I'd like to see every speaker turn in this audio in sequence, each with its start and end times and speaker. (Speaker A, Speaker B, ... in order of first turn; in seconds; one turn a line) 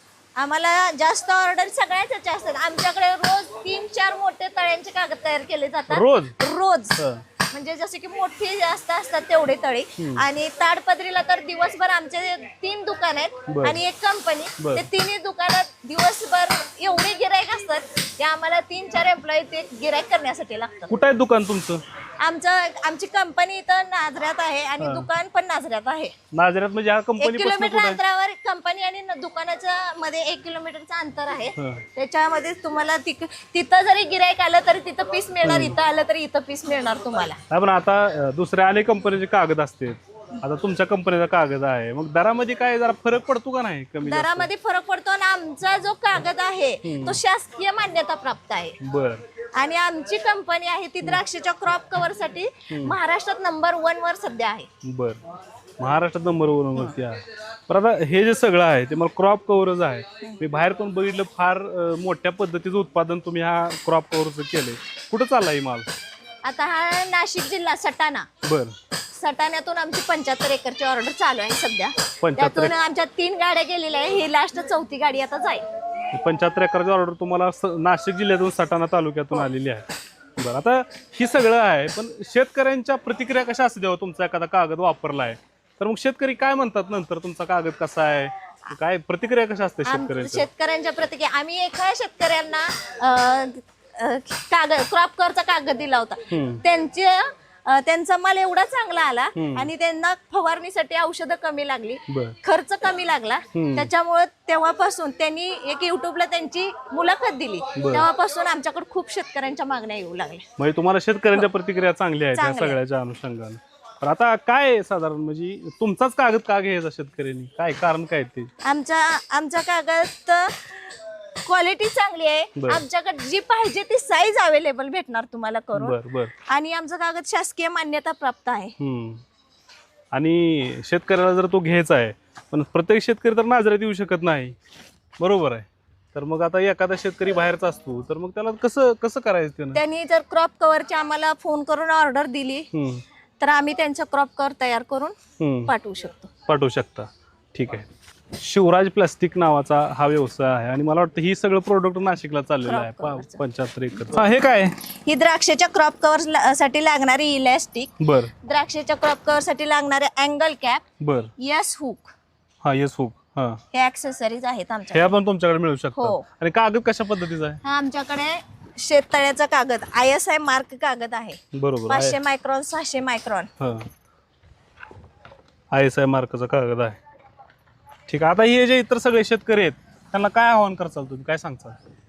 Speaker A: 0.4-20.9
Speaker B: 5.9-6.3
Speaker B: 7.0-7.2
Speaker B: 10.0-10.3
Speaker B: 13.5-13.8
Speaker B: 14.6-14.9
Speaker B: 20.9-21.8
Speaker A: 22.2-26.1
Speaker B: 24.8-25.1
Speaker B: 26.3-28.0
Speaker A: 27.2-37.4
Speaker B: 31.6-31.8
Speaker B: 35.4-35.8
Speaker B: 37.5-44.5
Speaker A: 44.0-48.8
Speaker B: 46.8-47.2
Speaker B: 48.8-49.2
Speaker A: 49.6-54.7
Speaker B: 52.7-53.0
Speaker B: 54.8-55.2
Speaker B: 55.8-65.9
Speaker A: 66.4-68.3
Speaker B: 68.4-68.7
Speaker A: 69.1-75.7
Speaker B: 72.2-72.7
Speaker B: 76.1-79.9
Speaker B: 80.4-90.5
Speaker A: 89.8-110.5
Speaker B: 96.3-96.6
Speaker B: 99.3-99.7
Speaker B: 102.1-102.4
Speaker B: 103.5-103.9
Speaker B: 107.8-108.1
Speaker B: 110.6-118.5
Speaker A: 112.3-112.8
Speaker A: 118.6-120.7
Speaker A: 121.5-128.8
Speaker B: 122.6-122.8
Speaker B: 125.8-126.3
Speaker B: 128.8-129.2
Speaker B: 130.1-134.6
Speaker B: 135.2-139.8
Speaker A: 139.8-142.7
Speaker B: 142.7-143.0
Speaker A: 143.4-146.3
Speaker B: 145.4-145.7
Speaker B: 146.5-147.9
Speaker B: 148.4-154.8
Speaker A: 152.6-153.4
Speaker A: 154.9-160.8
Speaker B: 158.0-158.3
Speaker B: 161.0-161.3
Speaker A: 161.4-162.1
Speaker B: 162.6-163.6
Speaker A: 163.7-165.1
Speaker B: 164.9-167.6
Speaker A: 166.0-166.2
Speaker A: 167.6-173.5
Speaker B: 171.5-172.2
Speaker B: 173.6-173.9
Speaker B: 175.7-177.0
Speaker B: 178.1-181.8